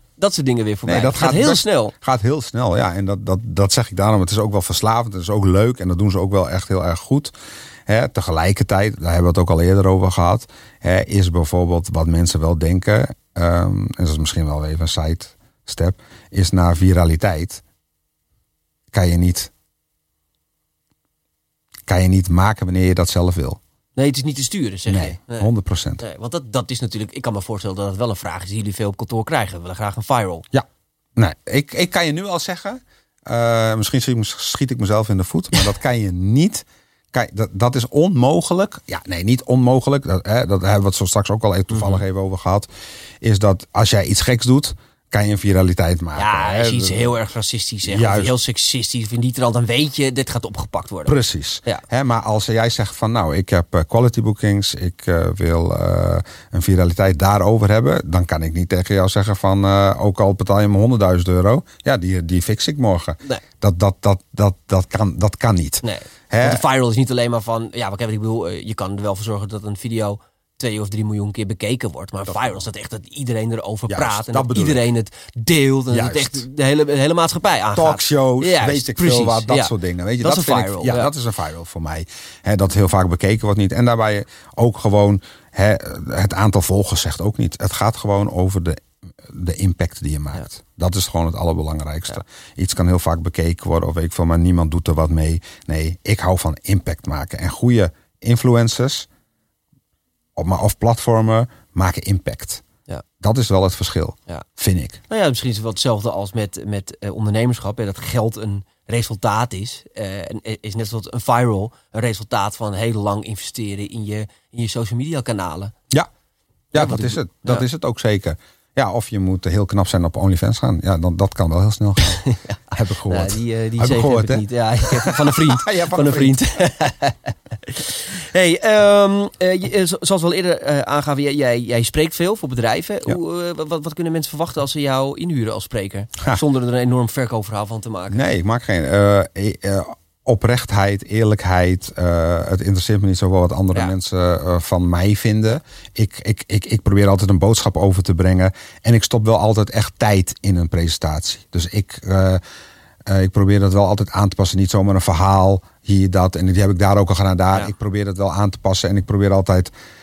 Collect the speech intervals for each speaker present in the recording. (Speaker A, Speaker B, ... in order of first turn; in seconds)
Speaker A: 0.2-1.9, 24.0-30.4, 41.7-42.0, 46.2-51.1, 65.8-81.1, 105.1-115.7, 116.8-117.7, 122.0-138.2
Speaker B: 0.8-7.3, 7.9-17.6, 18.9-19.5, 21.9-23.6, 24.9-26.0, 30.5-42.7, 43.2-47.1, 47.9-48.3, 51.1-66.6, 72.3-72.6, 73.9-74.8, 75.9-76.5, 77.8-99.1, 100.4-102.6, 103.2-105.0, 116.7-126.6, 138.1-152.4, 153.1-159.7